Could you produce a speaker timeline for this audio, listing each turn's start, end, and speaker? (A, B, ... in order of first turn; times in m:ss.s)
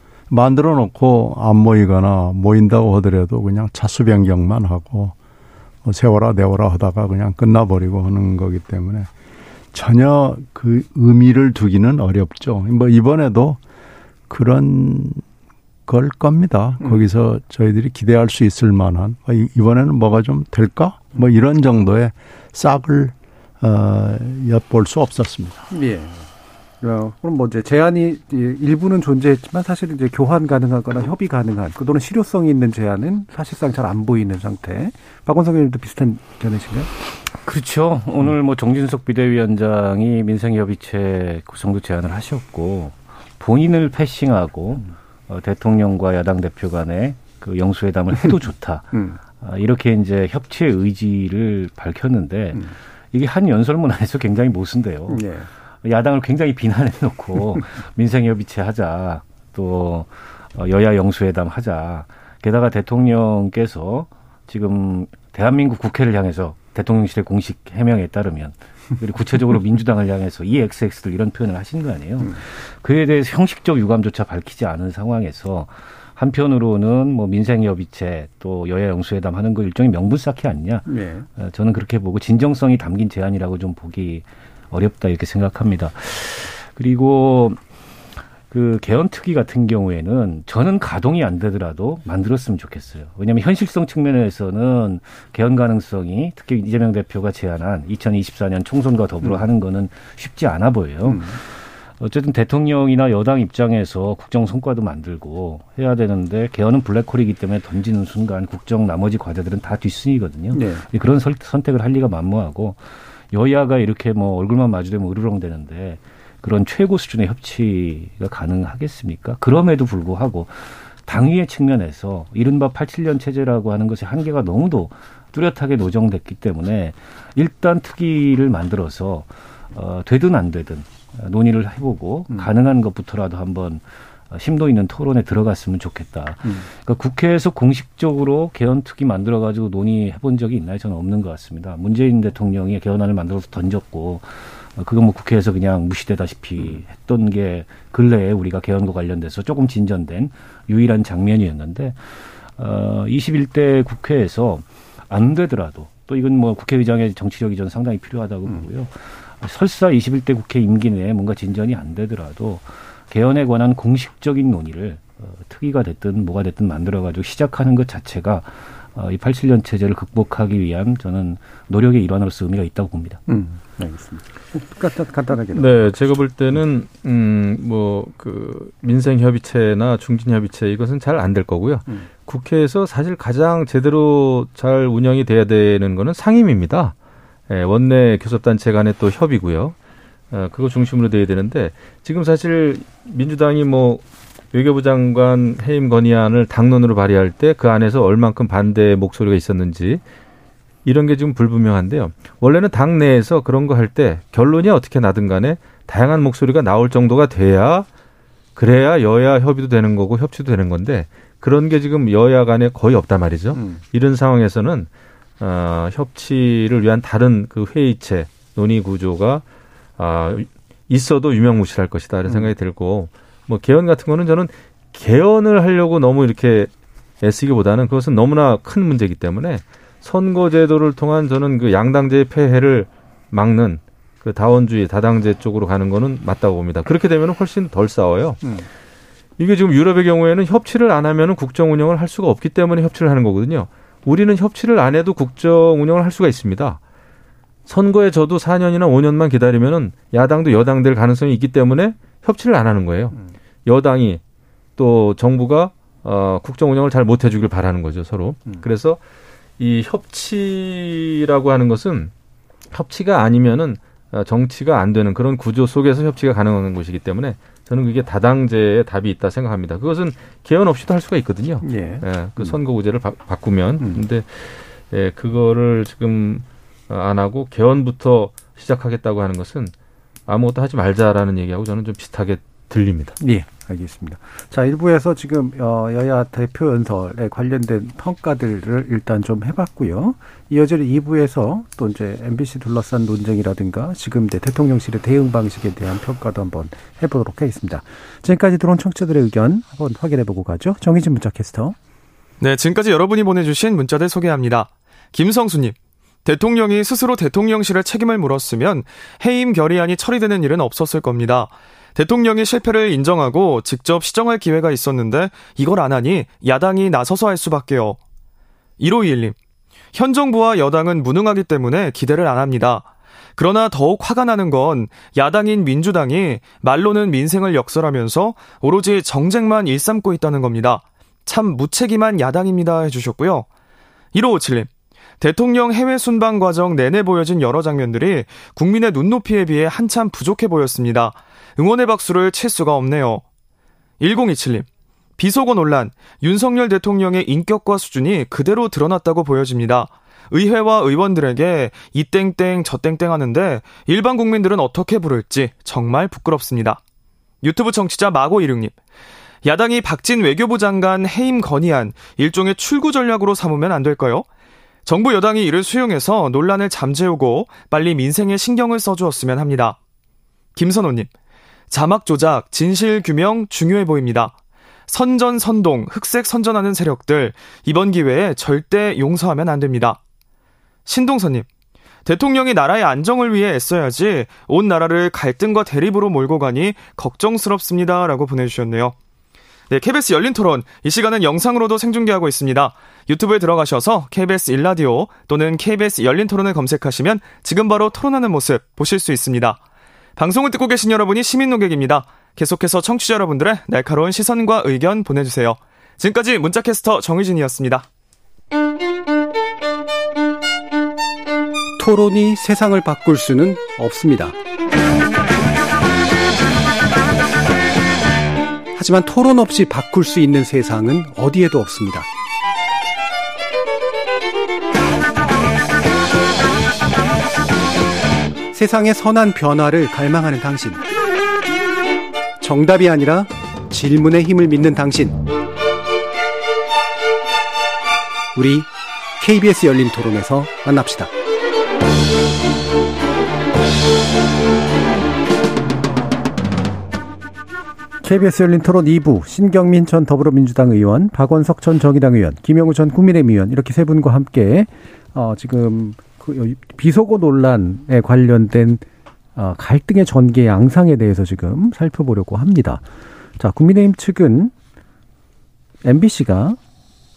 0:00.3-0:05.2 A
0:05.8-0:09.1 A
0:09.7-0:13.6 A
0:14.3-0:15.2 A
0:15.9-0:25.7 A
0:25.7-0:26.3 B
0:26.8-0:36.9 B
0:37.4-0:55.3 C
0:48.9-0:49.2 B
0:55.1-0:55.5 B
0:55.8-1:27.6 C
1:20.9-1:21.3 B
1:28.5-2:53.2 C
1:41.0-1:41.4 B
1:50.5-1:50.8 B
2:53.3-2:55.7 B
2:55.5-3:07.0 D
3:07.5-3:09.8 D
3:10.3-3:20.0 D
3:20.8-3:27.9 D
3:28.6-3:34.9 D
3:33.5-3:33.8 B
3:35.4-3:39.4 D
3:40.0-3:46.7 D
3:42.3-3:42.5 B
3:47.2-3:58.5 D
3:59.4-4:06.8 D
4:07.7-4:14.2 D
4:14.8-4:19.0 D
4:19.6-4:22.1 D
4:22.7-4:39.7 D
4:31.6-4:32.6 B
4:40.3-4:43.2 D
4:43.2-5:01.8 B
5:02.4-5:18.0 E
5:18.8-5:19.4 E
5:19.9-5:33.5 E
5:34.1-5:34.7 E
5:35.2-5:43.2 E
5:44.0-5:44.7 E
5:45.2-5:56.8 E
5:57.4-5:58.8 E
5:59.4-6:04.3 E
6:04.9-6:09.8 E
6:10.6-6:11.1 E
6:11.7-6:14.4 E
6:14.9-6:20.0 E
6:20.9-6:21.5 E
6:22.1-6:29.0 E
6:29.7-6:39.6 E
6:40.2-6:47.8 E
6:51.8-6:54.4 B
6:58.8-7:02.1 B
7:08.5-7:10.8 B
7:12.4-7:15.2 B
7:18.4-7:18.7 B
7:19.2-7:21.1 B
7:28.0-7:38.8 B
7:39.4-7:42.8 B
7:43.4-7:44.5 B
7:45.8-7:46.6 B